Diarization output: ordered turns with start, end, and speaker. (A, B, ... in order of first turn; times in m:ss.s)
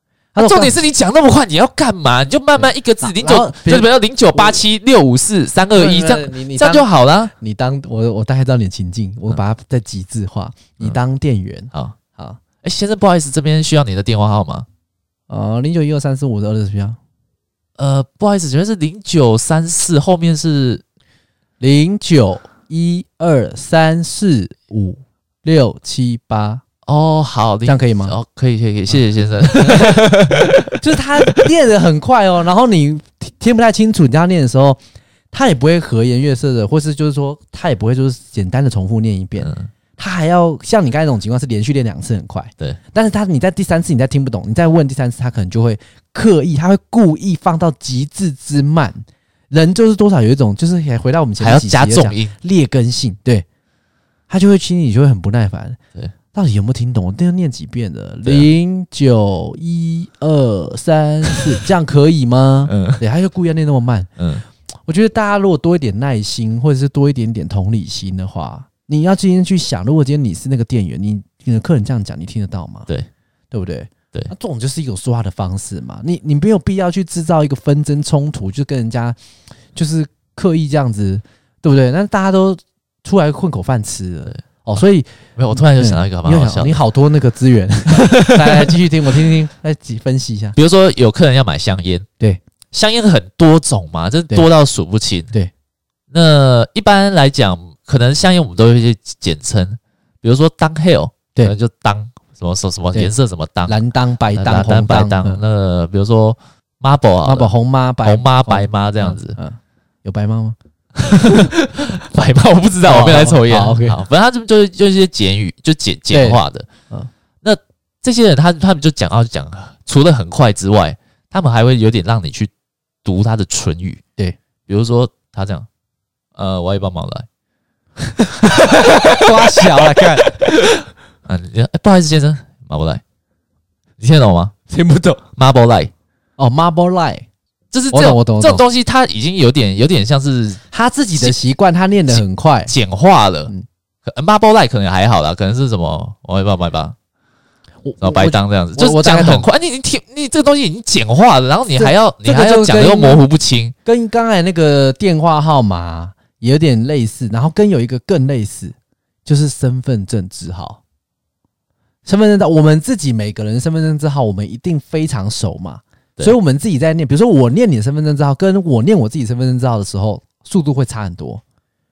0:00.3-0:00.8 A
0:00.4-0:07.3 B
0:02.6-0:04.6 A
0:05.7-0:12.4 A
0:12.6-0:14.7 B
0:15.3-0:17.0 A
0:17.8-0:20.8 B
0:21.6-0:26.6 A
0:26.9-0:31.5 B
0:27.7-0:28.2 A
0:29.6-0:34.8 A
0:35.3-0:53.4 A
0:39.4-0:39.7 B
0:51.4-0:52.3 B
0:54.3-0:55.8 A
0:56.3-1:04.1 A
1:02.7-1:03.0 B
1:04.2-1:04.4 B
1:04.9-1:12.9 A
1:13.5-1:19.2 A
1:19.7-1:30.6 A
1:25.4-1:26.8 B
1:27.9-1:28.7 B
1:30.6-1:32.1 B
1:32.7-1:35.3 B
1:36.1-1:43.8 B
1:43.7-1:45.4 A
1:44.3-1:47.5 B
1:47.2-1:50.6 A
1:48.0-1:49.4 B
1:51.0-1:56.7 B
1:51.2-1:51.5 A
1:52.8-1:54.0 A
1:56.1-1:57.1 A
1:57.4-2:02.5 B
2:03.0-2:04.0 B
2:04.7-2:05.7 B
2:06.4-2:07.3 B
2:08.4-2:10.4 A
2:08.4-2:13.0 B
2:14.0-2:14.6 B
2:14.7-2:15.2 A
2:15.4-2:15.9 B
2:16.4-2:17.3 A
2:17.7-2:20.6 B
2:17.9-2:18.6 A
2:20.7-2:22.7 A
2:22.1-2:23.5 B
2:24.0-2:27.0 B
2:27.8-2:29.5 A
2:28.0-2:33.7 B
2:31.7-2:33.2 A
2:33.9-2:38.8 A
2:39.3-2:40.8 A
2:42.0-2:51.4 A